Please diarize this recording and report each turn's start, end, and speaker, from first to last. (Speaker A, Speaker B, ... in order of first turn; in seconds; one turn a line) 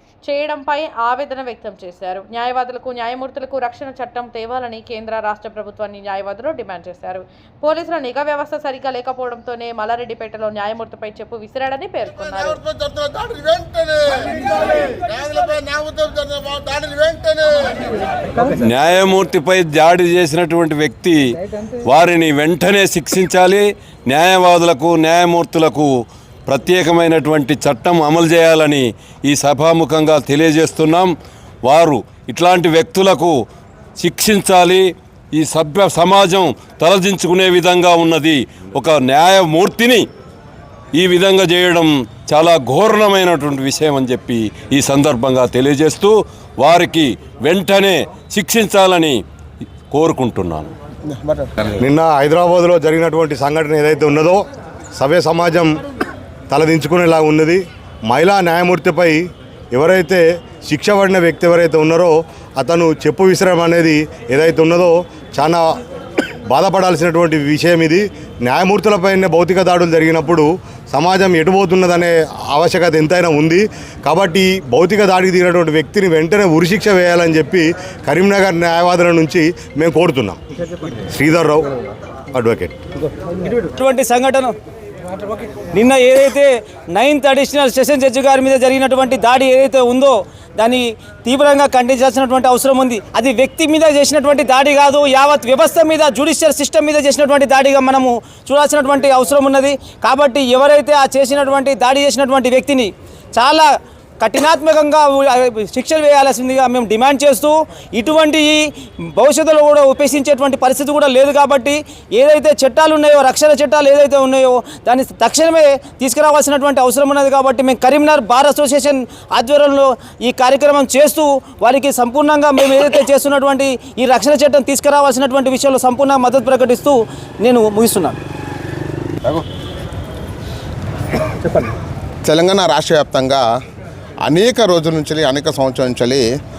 Speaker A: 0.2-12.6
Speaker B: 12.1-18.0
Speaker C: 18.6-21.2
Speaker C: 21.8-25.9
Speaker C: 26.5-31.1
Speaker C: 31.6-33.3
Speaker C: 34.0-40.0
Speaker C: 41.0-49.2
Speaker C: 49.9-50.7
Speaker B: 51.1-51.5
Speaker D: 51.8-54.4
Speaker D: 54.9-55.8
Speaker D: 56.5-65.8
Speaker D: 66.5-80.4
Speaker D: 81.1-81.7
Speaker D: 82.3-82.8
Speaker E: 83.7-84.5
Speaker E: 85.7-128.2
Speaker B: 132.2-133.4
Speaker B: 134.3-136.2